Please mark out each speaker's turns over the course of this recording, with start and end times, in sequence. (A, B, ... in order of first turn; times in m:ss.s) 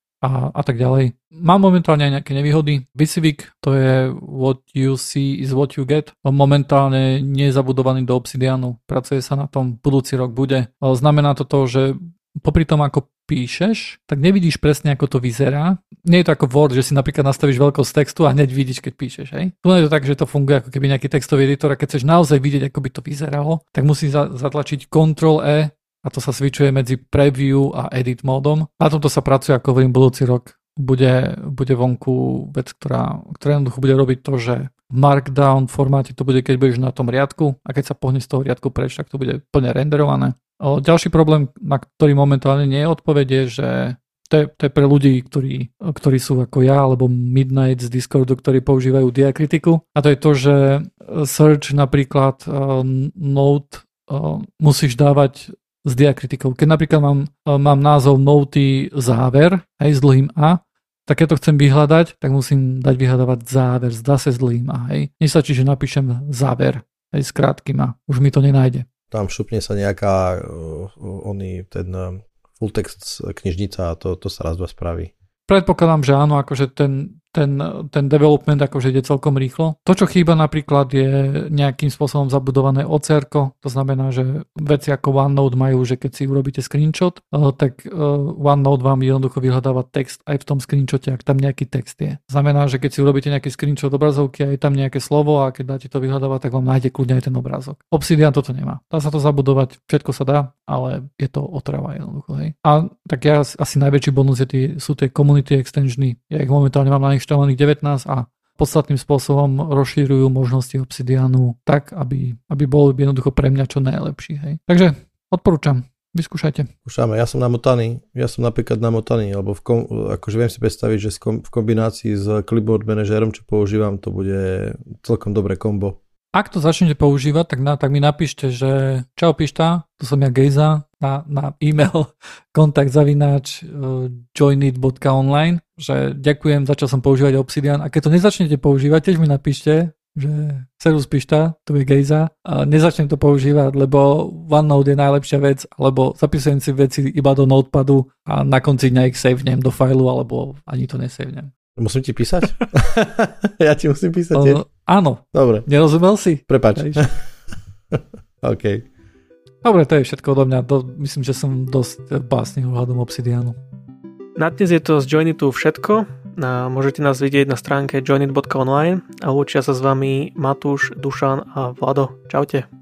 0:00.2-1:08.9 A
1:09.1-1:15.1 B
1:15.5-1:56.7 A
1:56.8-2:06.0 B
2:06.3-2:31.5 A
2:31.8-2:34.6 B
2:34.3-2:37.1 A
2:35.3-2:35.7 B
2:36.5-2:37.2 B
2:37.9-2:38.8 B
2:39.6-2:43.6 A
2:44.4-2:52.6 C